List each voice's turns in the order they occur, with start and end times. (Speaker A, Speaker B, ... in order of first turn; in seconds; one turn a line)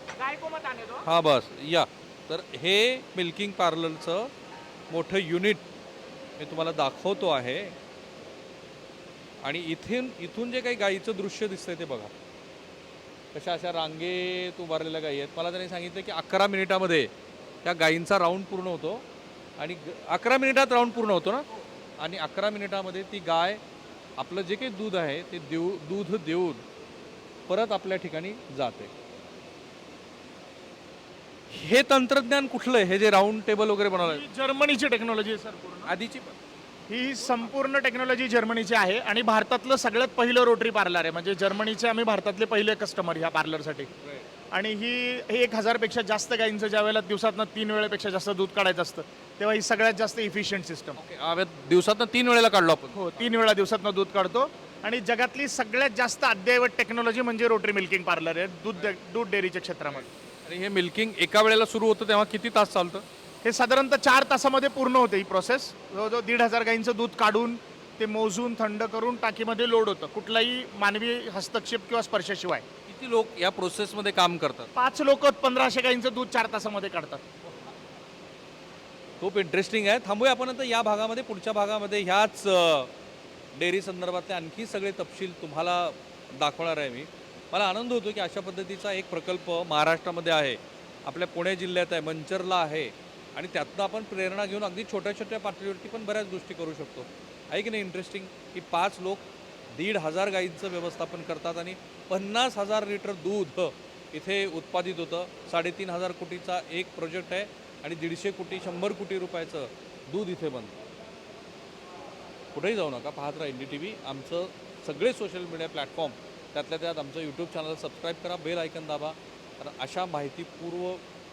Speaker A: 0.1-1.1
Speaker B: 1.0-4.3
Speaker B: 4.9-5.7
Speaker B: 6.4-7.8
Speaker B: 9.4-12.1
Speaker B: 13.3-17.1
Speaker B: 17.6-19.0
Speaker B: 19.6-21.4
Speaker B: 22.0-23.6
Speaker B: 24.2-26.6
Speaker B: 27.5-28.9
Speaker B: 31.5-34.2
Speaker A: 34.0-35.9
Speaker B: 35.9-36.4
Speaker A: 36.9-43.9
Speaker B: 37.2-37.5
Speaker B: 44.0-44.3
Speaker A: 44.5-51.0
Speaker B: 51.0-53.2
Speaker A: 52.9-60.0
Speaker B: 59.9-63.0
Speaker A: 63.4-72.6
Speaker B: 72.9-74.7
Speaker A: 74.7-77.2
Speaker B: 79.2-82.9
Speaker B: 83.5-110.8
Speaker B: 112.5-121.0